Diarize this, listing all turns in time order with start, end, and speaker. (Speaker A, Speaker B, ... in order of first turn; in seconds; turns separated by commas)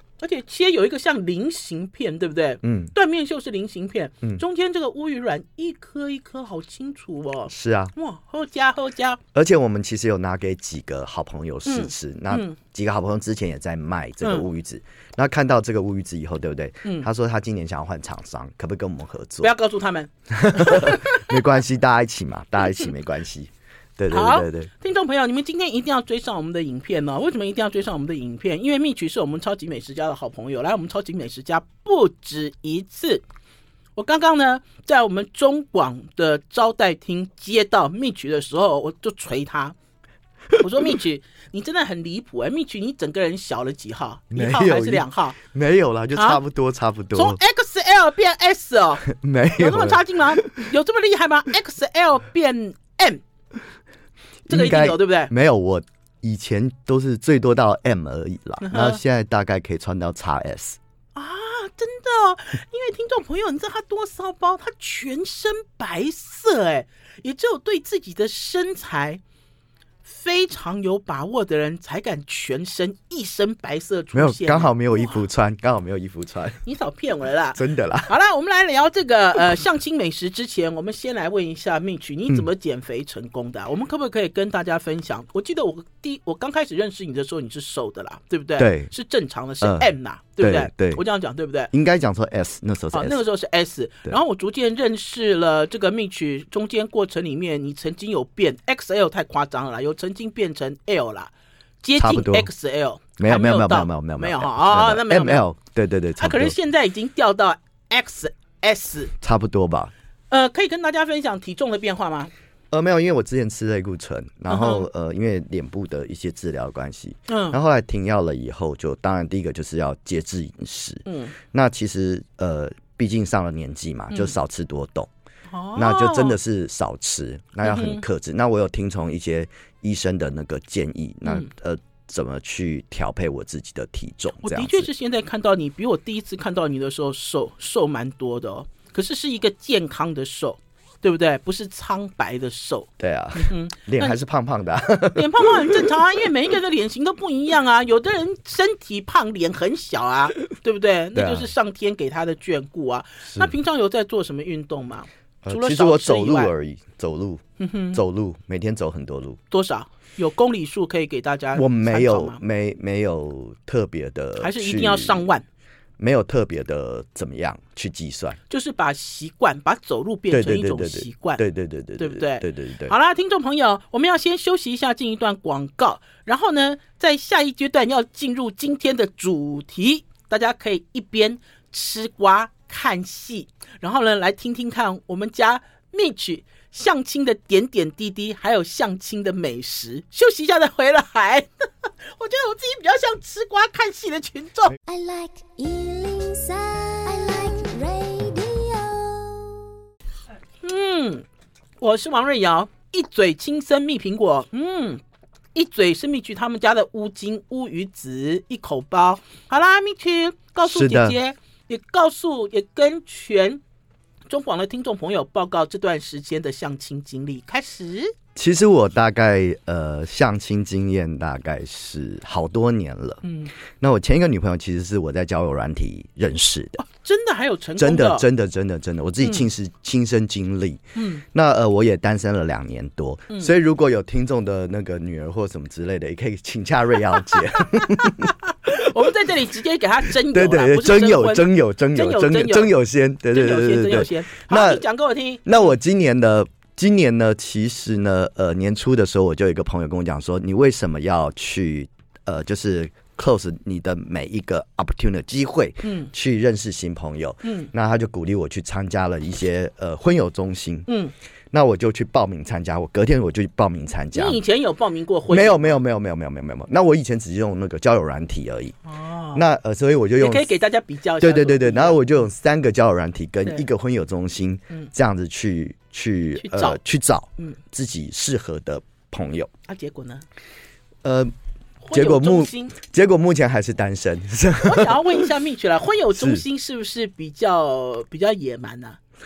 Speaker A: 0.2-9.2, Speaker B: 2.6-2.9, Speaker B: 7.5-7.9, Speaker B: 9.3-19.5, Speaker A: 11.7-12.6, Speaker A: 19.4-21.3, Speaker B: 20.3-24.7, Speaker A: 24.1-33.2, Speaker A: 34.0-39.8, Speaker A: 40.5-45.4, Speaker B: 44.3-47.4, Speaker A: 46.1-46.4, Speaker A: 47.1-49.0, Speaker B: 49.0-50.7, Speaker A: 49.6-53.2, Speaker B: 54.5-60.8, Speaker A: 54.5-55.3, Speaker A: 58.6-59.0, Speaker A: 61.1-69.2, Speaker A: 70.0-75.2, Speaker B: 74.1-76.6, Speaker A: 76.6-91.7, Speaker B: 77.5-78.1, Speaker B: 88.6-88.9, Speaker B: 89.6-91.0, Speaker B: 91.7-93.2, Speaker A: 92.9-101.3, Speaker A: 101.8-105.5, Speaker B: 102.0-102.5, Speaker B: 103.2-106.5, Speaker A: 106.2-109.1, Speaker B: 109.2-109.9, Speaker A: 110.3-112.3, Speaker B: 112.7-125.1, Speaker A: 114.5-114.9, Speaker A: 117.3-117.6, Speaker A: 121.1-121.3, Speaker A: 125.5-126.4, Speaker B: 125.7-134.9, Speaker A: 127.6-128.0, Speaker A: 134.4-144.2, Speaker B: 143.0-145.9, Speaker A: 145.0-156.5, Speaker B: 151.1-151.5, Speaker B: 155.4-159.4, Speaker A: 157.6-158.0, Speaker A: 159.5-162.4, Speaker B: 161.6-165.3, Speaker A: 164.4-165.4, Speaker B: 166.0-168.4, Speaker A: 168.5-171.4, Speaker B: 170.3-172.9, Speaker A: 172.0-194.8, Speaker C: 194.8-199.6, Speaker A: 200.6-201.2, Speaker A: 201.8-205.0, Speaker A: 205.5-213.6, Speaker B: 210.6-211.2, Speaker A: 214.3-218.1, Speaker B: 218.3-223.2, Speaker A: 223.2-223.5, Speaker B: 223.8-226.8, Speaker A: 226.8-228.2, Speaker B: 227.8-238.7, Speaker A: 229.2-229.4, Speaker A: 230.9-231.2, Speaker A: 237.5-242.7, Speaker B: 240.1-244.8, Speaker A: 243.3-245.7, Speaker B: 245.4-260.9, Speaker A: 255.8-256.1, Speaker A: 257.4-257.7, Speaker A: 260.9-261.1, Speaker B: 261.5-264.4, Speaker A: 264.1-265.8, Speaker B: 265.3-268.7, Speaker A: 268.9-269.4, Speaker B: 269.3-270.5, Speaker A: 270.2-272.0, Speaker B: 271.2-279.5, Speaker A: 276.4-276.8, Speaker A: 279.7-280.2, Speaker B: 281.0-281.3, Speaker A: 281.8-282.8, Speaker B: 281.9-285.2, Speaker A: 284.6-289.0, Speaker B: 286.1-286.4